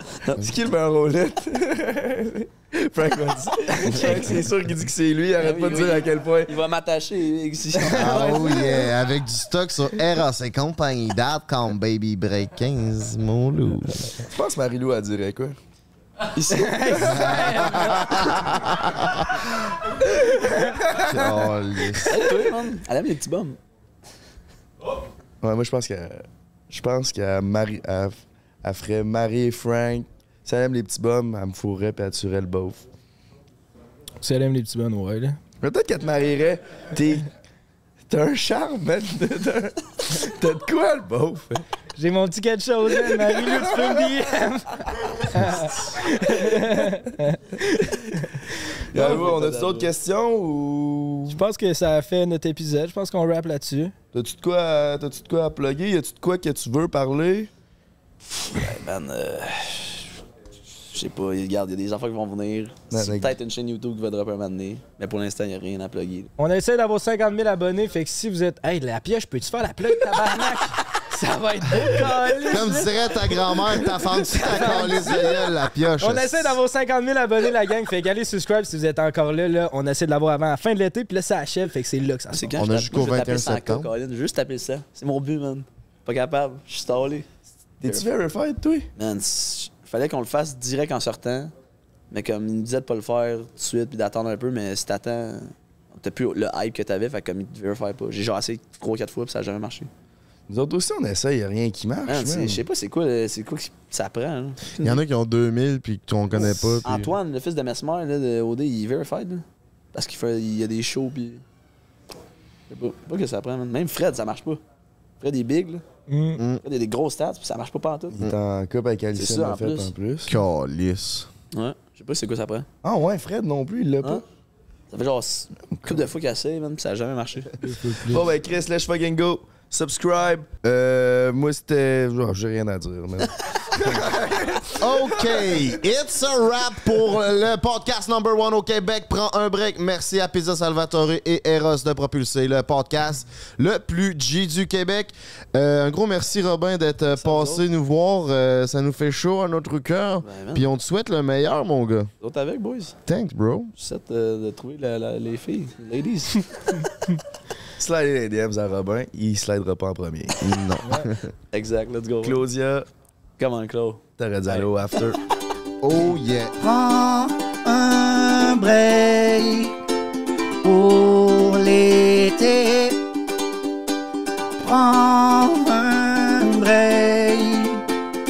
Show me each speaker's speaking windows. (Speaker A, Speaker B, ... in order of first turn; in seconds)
Speaker A: 0.1-0.4, 3.9-4.2, 5.4-8.8, 16.3-17.9, 22.1-23.6, 48.9-49.9, 58.2-60.2, 60.9-66.3, 70.1-70.8, 71.7-72.9, 82.3-87.3, 89.0-91.5, 92.1-99.9, 102.1-105.0, 106.4-111.4, 112.7-114.6, 115.2-115.8, 116.6-118.2, 119.2-119.9, 121.5-122.7, 124.9-127.6, 133.4-134.6, 147.1-147.6, 150.2-150.7, 152.2-153.0, 153.8-156.8, 161.5-162.4, 163.4-164.7
Speaker B: 0.3-6.5, 14.1-15.6, 25.4-32.9, 35.6-37.3, 38.1-41.6, 48.9-51.4, 54.1-57.5, 62.9-63.3, 87.8-88.9, 100.5-102.6, 118.1-120.3, 122.8-124.2, 128.1-134.8, 157.8-160.4, 162.2-162.9, 164.2-165.2
Speaker C: 3.9-4.2, 7.8-8.2, 16.5-18.4, 34.2-35.4, 42.0-49.2, 51.3-53.9, 66.4-82.6, 116.1-116.4, 127.6-128.3, 160.8-161.1
Speaker D: 7.9-14.1, 17.0-19.3, 21.0-22.2, 72.4-76.6, 82.5-83.9, 104.8-107.1, 116.3-116.6, 120.3-121.3, 134.8-152.1, 153.1-153.7, 160.4-161.3, 165.8-166.5
Speaker E: 166.6-169.7, 170.6-173.0, 174.6-177.8